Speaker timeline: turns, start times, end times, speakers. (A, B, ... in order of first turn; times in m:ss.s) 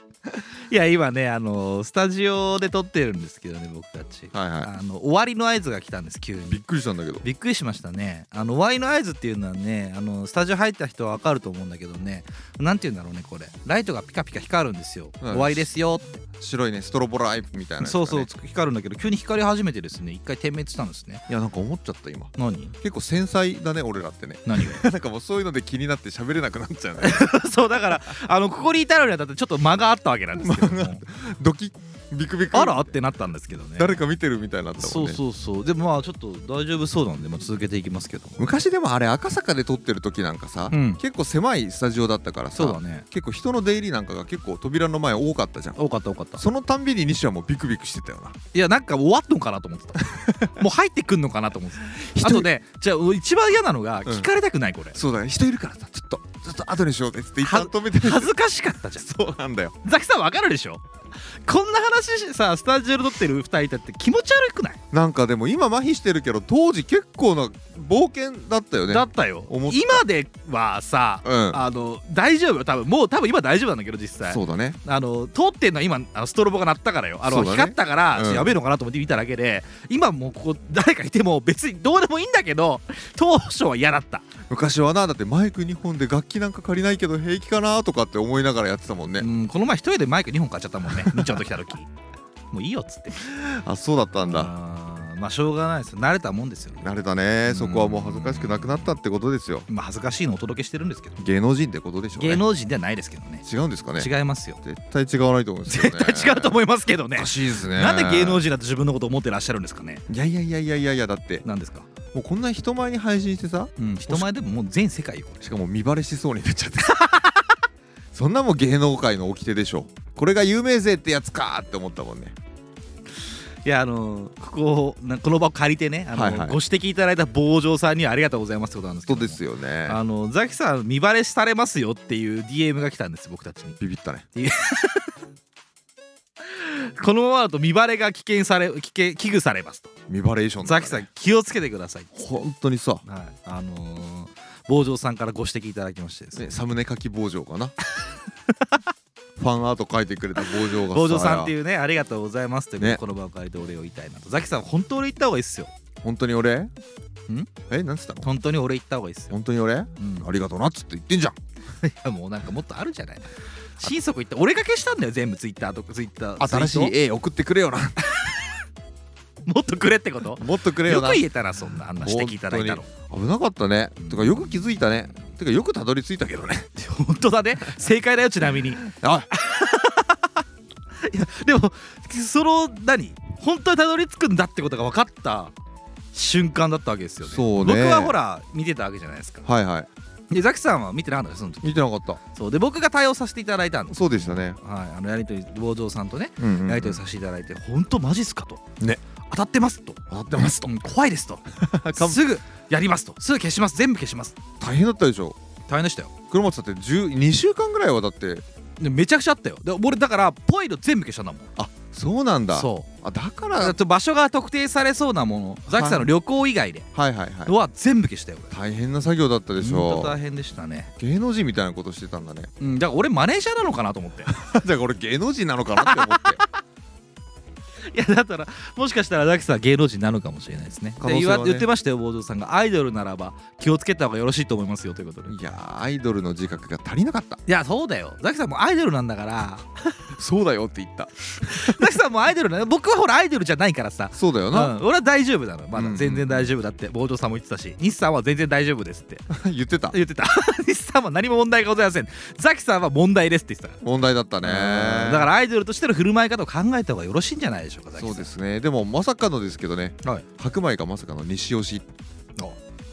0:00.7-0:06.6 A
0:04.3-0:04.7 B
0:06.5-0:07.2 B
0:07.2-0:16.2 A
0:15.2-0:15.7 B
0:16.4-0:18.3 B
0:17.8-0:21.2 A
0:21.3-0:27.3 B
0:22.4-0:22.7 A
0:24.4-0:24.8 A
0:27.0-0:31.0 A
0:30.4-0:32.9 B
0:32.5-0:34.0 A
0:33.8-0:35.2 B
0:34.8-0:38.4 A
0:38.4-0:45.8 B
0:40.7-0:41.0 A
0:42.5-0:43.0 A
0:45.8-0:46.4 A
0:46.4-0:48.4 B
0:48.5-0:55.0 A
0:50.0-0:50.6 B
0:51.8-0:52.5 B
0:54.9-0:58.3 B
0:57.4-0:59.1 A
0:59.0-0:59.8 B
0:59.8-1:04.8 A
1:04.9-1:10.0 B
1:08.9-1:24.2 A
1:11.2-1:11.6 B
1:14.3-1:14.8 B
1:17.2-1:18.5 B
1:24.5-1:29.3 B
1:29.2-1:31.9 A
1:30.9-1:31.4 B
1:32.5-1:33.2 A
1:33.1-1:34.5 B
1:34.2-1:36.9 A
1:36.8-1:39.7 B
1:37.4-1:38.9 A
1:39.7-1:41.2 A
1:41.2-1:42.4 B
1:42.2-1:43.4 A
1:43.4-1:44.1 B
1:44.0-1:44.6 A
1:44.6-1:46.6 B
1:45.7-1:50.0 A
1:47.1-1:48.4 B
1:50.1-1:51.4 B
1:51.4-1:51.9 A
1:52.1-1:54.3 B
1:53.8-1:55.4 A
1:55.4-1:57.0 B
1:56.8-1:57.5 A
1:58.1-2:02.4 B
2:03.6-2:13.8 A
2:06.1-2:06.6 B
2:09.1-2:10.0 B
2:13.8-2:14.2 B
2:14.3-2:15.1 A
2:16.5-2:19.9 A
2:20.1-2:21.1 B
2:20.6-2:22.1 A
2:22.1-2:23.0 B
2:23.0-2:26.4 A
2:26.3-2:27.7 B
2:28.0-2:28.8 A
2:29.4-2:31.5 B
2:30.4-2:35.7 A
2:36.0-2:36.7 B
2:37.7-2:38.3 B
2:38.2-2:39.3 A
2:39.3-2:41.4 B
2:40.0-2:40.3 A
2:41.8-2:46.9 A
2:46.4-2:48.1 B
2:49.4-2:52.9 A
2:50.4-2:51.2 B
2:52.0-2:56.7 B
2:54.0-2:54.5 A
2:56.8-3:00.4 A
2:58.8-2:59.3 B
3:01.0-3:05.5 A
3:06.1-3:09.4 A
3:07.2-3:08.1 B
3:09.4-3:09.9 B
3:10.3-3:18.6 A
3:11.6-3:12.2 B
3:13.9-3:14.6 B
3:16.4-3:17.0 B
3:19.3-3:20.1 A
3:20.1-3:20.7 B
3:20.6-3:24.4 A
3:21.5-3:22.2 B
3:24.6-3:25.4 B
3:25.7-3:26.1 A
3:26.3-3:28.4 B
3:28.8-3:31.5 A
3:31.6-3:33.8 B
3:32.5-3:32.9 A
3:33.6-3:36.9 A
3:35.7-3:36.1 B
3:36.9-3:37.5 B
3:37.4-3:38.5 A
3:38.5-3:40.2 B
3:39.6-3:40.9 A
3:41.0-3:42.5 B
3:42.6-3:44.3 A
3:44.3-3:46.4 B
3:45.8-3:46.5 A
3:47.9-3:55.4 A
3:51.0-3:51.7 B
3:55.3-3:57.4 B
3:57.5-4:00.0 A
4:00.1-4:01.9 B
4:01.4-4:09.3 A
4:04.1-4:04.8 B
4:05.7-4:06.5 B
4:09.3-4:10.0 B
4:09.9-4:13.8 A
4:13.8-4:15.3 B
4:14.4-4:18.3 A
4:18.0-4:21.9 B